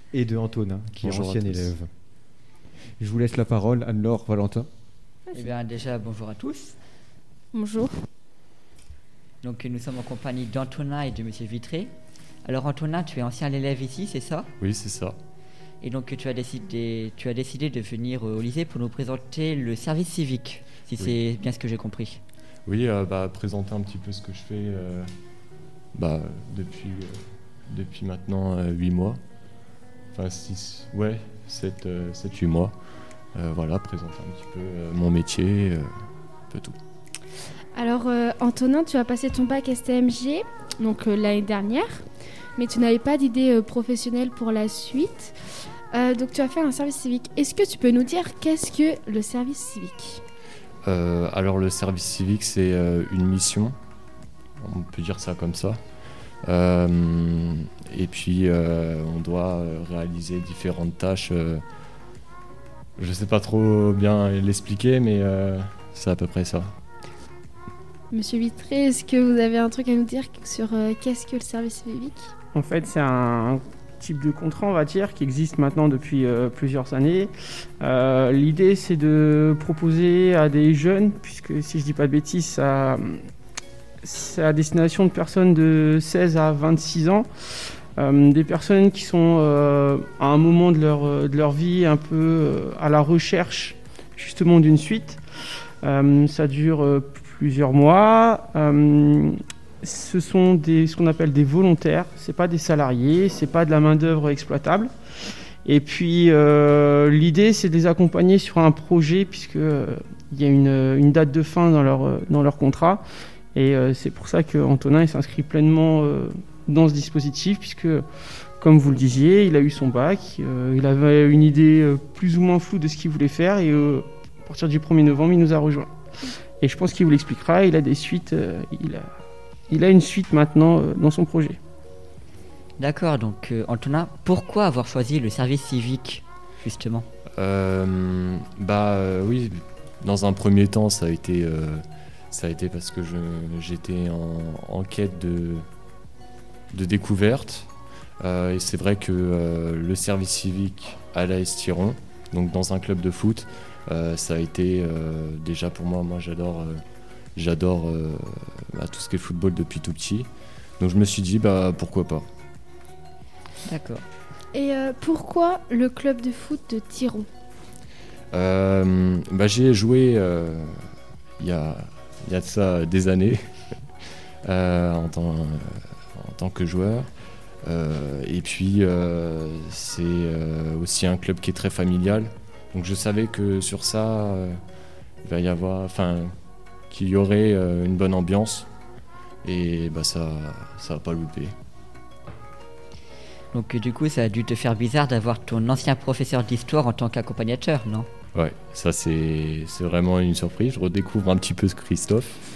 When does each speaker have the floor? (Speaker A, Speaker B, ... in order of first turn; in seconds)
Speaker A: 0.1-1.9, 3.0-4.7
Speaker B: 1.0-1.7, 14.6-15.2, 22.7-25.1, 25.9-29.2, 30.1-32.7, 33.4-35.9, 36.5-36.8, 50.9-53.8, 54.6-55.8, 56.5-61.6, 63.0-66.7, 137.4-145.7, 146.7-147.7, 148.2-156.8, 157.4-160.3, 160.8-162.3, 168.3-170.8, 171.4-173.4, 174.4-177.1, 177.7-184.6, 185.2-186.3, 186.9-188.7, 189.4-191.5, 198.3-202.4
Speaker C: 5.3-6.8, 9.4-11.9, 12.4-14.5, 15.8-22.2, 132.8-137.1, 163.7-164.1, 193.5-198.1
Speaker D: 7.5-7.9, 37.8-42.0, 42.6-45.3, 45.9-50.2, 68.1-72.3, 164.5-167.3
Speaker E: 72.5-77.3, 77.8-83.3, 84.0-87.3, 88.0-95.2, 95.8-104.9, 105.7-113.0, 113.5-118.0, 118.6-125.9, 126.6-129.1, 129.7-131.6